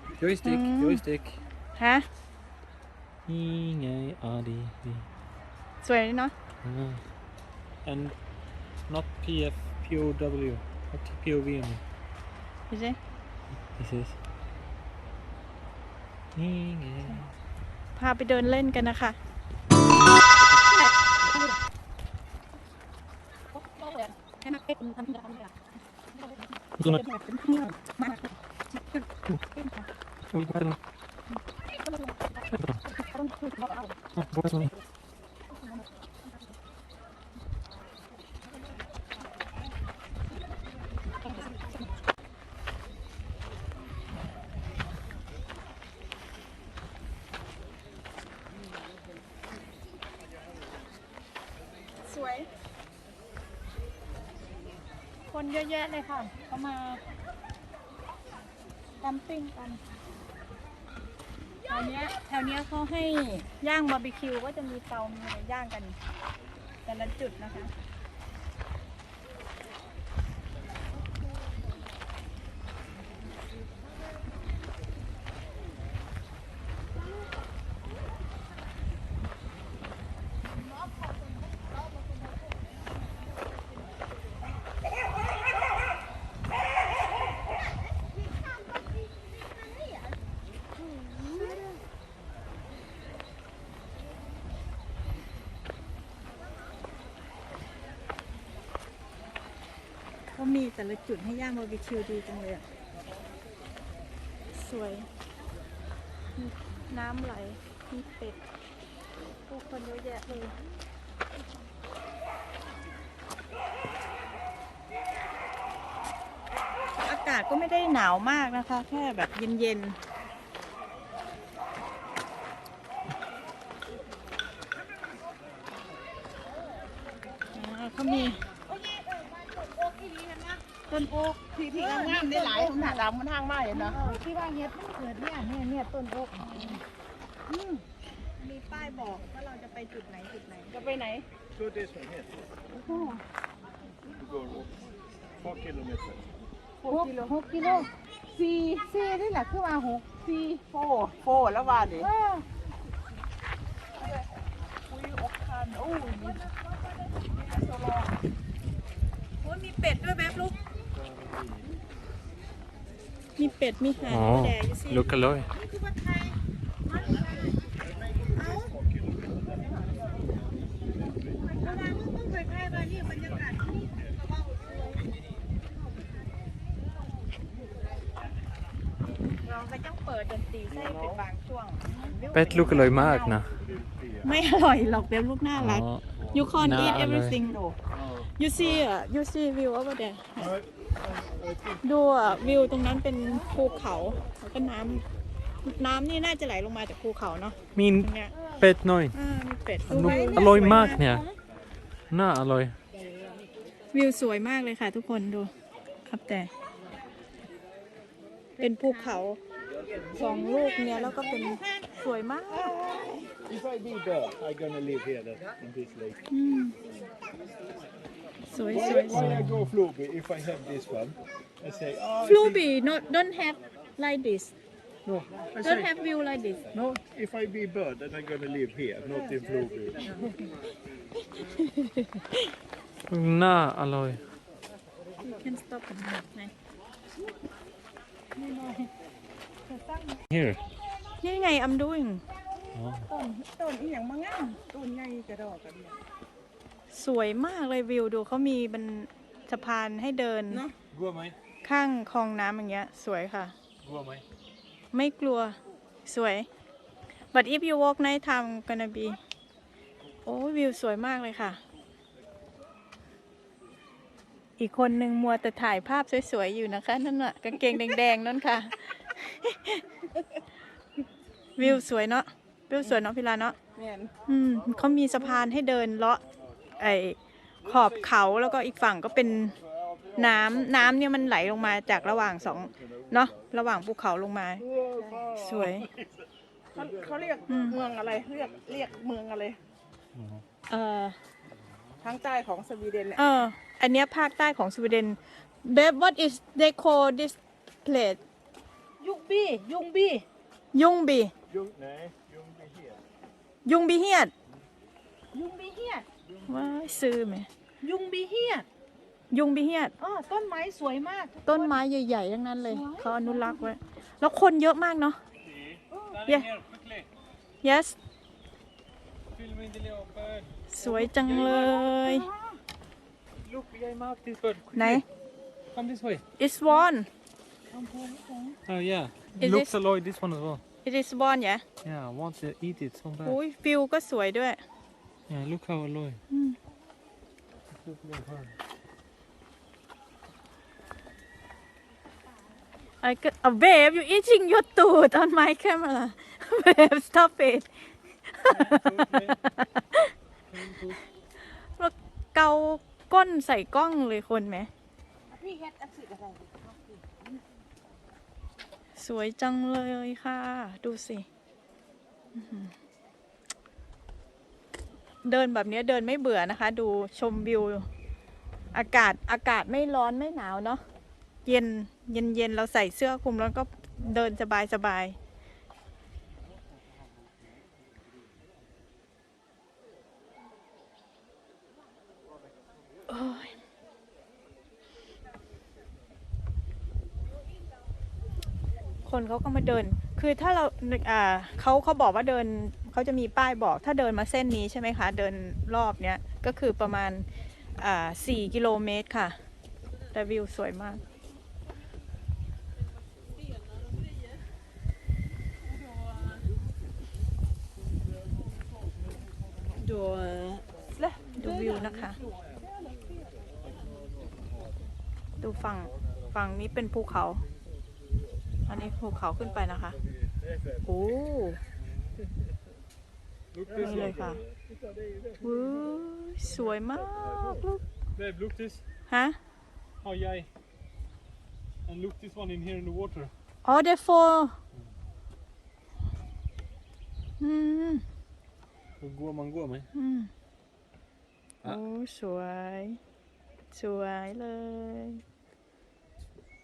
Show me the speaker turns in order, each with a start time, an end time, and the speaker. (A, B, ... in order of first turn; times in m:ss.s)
0:00.2-0:01.4 A
0:00.4-0:01.0 B
0:01.8-0:02.0 B
0:03.3-0:05.1 A
0:05.8-0:06.3 B
0:06.6-0:07.0 A
0:07.8-0:08.2 A
0:08.8-0:11.8 A
0:12.7-0:13.0 B
0:13.8-0:14.2 A
0:16.4-0:17.3 A
0:18.0-0:19.2 B
0:20.7-0:21.6 B
0:23.5-0:25.6 B
0:26.2-0:29.0 B
0:29.6-0:29.8 B
0:30.3-0:30.8 A
0:31.7-0:34.0 B
0:32.5-0:32.8 A
0:34.2-0:34.7 A
0:52.0-0:52.5 B
0:55.3-0:57.0 B
0:59.0-0:59.8 B
1:01.7-1:06.0 B
1:06.8-1:07.7 B
1:31.3-1:31.6 C
1:31.4-1:31.6 B
1:40.3-1:42.6 B
1:44.5-1:45.1 B
1:46.4-1:48.4 B
1:49.5-1:50.6 B
1:57.0-2:00.0 B
2:07.5-2:08.5 B
2:08.7-2:10.6 C
2:09.4-2:10.0 D
2:10.9-2:13.0 B
2:11.4-2:14.0 C
2:13.9-2:14.3 B
2:14.1-2:16.0 D
2:16.0-2:16.8 B
2:16.5-2:16.8 C
2:17.5-2:17.8 C
2:18.4-2:20.8 B
2:20.7-2:21.3 C
2:21.6-2:22.2 E
2:22.8-2:23.2 C
2:22.9-2:23.2 B
2:24.4-2:24.7 E
2:25.4-2:26.2 E
2:26.8-2:32.1 C
2:34.0-2:34.3 C
2:34.9-2:36.5 C
2:37.3-2:38.1 C
2:39.4-2:40.6 B
2:43.4-2:45.2 B
2:44.1-2:45.5 A
2:45.6-2:46.4 C
2:46.9-2:47.6 C
2:48.4-2:48.7 C
2:51.6-2:53.8 C
2:59.4-3:03.4 B
3:02.3-3:03.6 A
3:04.2-3:10.6 B
3:05.6-3:06.0 A
3:06.6-3:07.4 A
3:11.8-3:15.0 B
3:15.6-3:18.4 B
3:17.8-3:19.2 A
3:19.1-3:21.0 B
3:19.9-3:21.3 A
3:19.9-3:21.2 C
3:22.1-3:22.8 A
3:23.9-3:25.5 B
3:26.1-3:26.5 B
3:28.6-3:29.2 C
3:28.6-3:29.4 B
3:30.2-3:32.7 B
3:30.2-3:33.3 C
3:33.5-3:36.1 E
3:36.3-3:36.8 B
3:38.5-3:39.4 B
3:38.7-3:42.4 E
3:38.9-3:39.7 A
3:42.2-3:44.5 B
3:45.6-3:46.9 B
3:46.8-3:50.0 E
3:51.3-3:52.5 B
3:53.1-3:54.2 A
3:55.2-3:56.5 B
3:58.4-3:58.9 C
4:00.3-4:00.6 A
4:01.2-4:02.2 B
4:02.7-4:03.1 A
4:03.1-4:06.0 C
4:06.9-4:10.7 B
4:10.5-4:10.8 C
4:10.9-4:11.4 A
4:11.6-4:13.5 B
4:13.8-4:14.2 A
4:14.9-4:16.5 B
4:17.3-4:19.2 B
4:20.2-4:21.6 B
4:24.6-4:29.8 B
4:31.6-4:33.6 B
4:33.8-4:34.1 C
4:34.3-4:36.2 B
4:36.8-4:39.6 B
4:40.1-4:44.7 B
4:45.0-4:45.3 C
4:45.3-4:45.9 B
4:46.7-4:49.6 C
4:47.5-4:47.8 B
4:50.1-4:50.4 A
4:50.7-4:51.2 B
4:52.0-4:53.4 C
4:53.2-4:58.2 B
4:59.0-5:00.2 C
5:00.7-5:01.3 B
5:01.5-5:03.0 E
5:03.6-5:04.3 B
5:05.3-5:06.1 C
5:06.5-5:07.5 B
5:07.8-5:08.7 C
5:08.0-5:08.3 D
5:09.3-5:10.0 B
5:10.0-5:11.8 C
5:11.5-5:15.2 B
5:12.7-5:13.7 C
5:15.5-5:17.1 A
5:17.6-5:18.0 B
5:19.3-5:21.8 A
5:20.7-5:22.3 B
5:21.6-5:22.6 C
5:23.4-5:25.0 A
5:24.8-5:25.0 B
5:25.7-5:26.2 A
5:26.4-5:27.1 B
5:27.7-5:28.6 C
5:28.7-5:30.6 A
5:29.4-5:29.7 B
5:30.8-5:31.6 B
5:31.8-5:33.4 A
5:33.2-5:34.6 B
5:35.3-5:36.2 A
5:36.3-5:36.6 B
5:37.8-5:38.6 A
5:43.0-5:47.7 B
5:48.3-5:50.1 B
5:48.5-5:49.4 A
5:50.5-5:51.0 A
5:51.8-5:54.7 B
5:55.3-5:57.3 C
5:59.0-6:01.3 B
6:02.4-6:02.7 B
6:05.2-6:07.9 B
6:08.7-6:10.8 B
6:11.5-6:15.2 B
6:23.1-6:23.5 B
6:29.0-6:39.4 B
6:40.1-6:41.0 B
6:50.2-6:50.5 B
6:51.0-6:53.2 C
6:51.4-6:52.2 B
6:55.4-6:57.4 B
6:58.7-7:00.0 B
7:00.8-7:01.6 B
7:03.5-7:04.3 A
7:03.8-7:04.4 B
7:04.0-7:04.3 E
7:05.4-7:07.8 B
7:08.2-7:08.8 A
7:09.1-7:09.4 B
7:10.0-7:10.5 A
7:11.9-7:13.3 A
7:13.6-7:14.6 B
7:17.4-7:18.0 B
7:19.0-7:19.9 A
7:19.9-7:20.3 B
7:21.6-7:23.0 B
7:23.7-7:25.2 B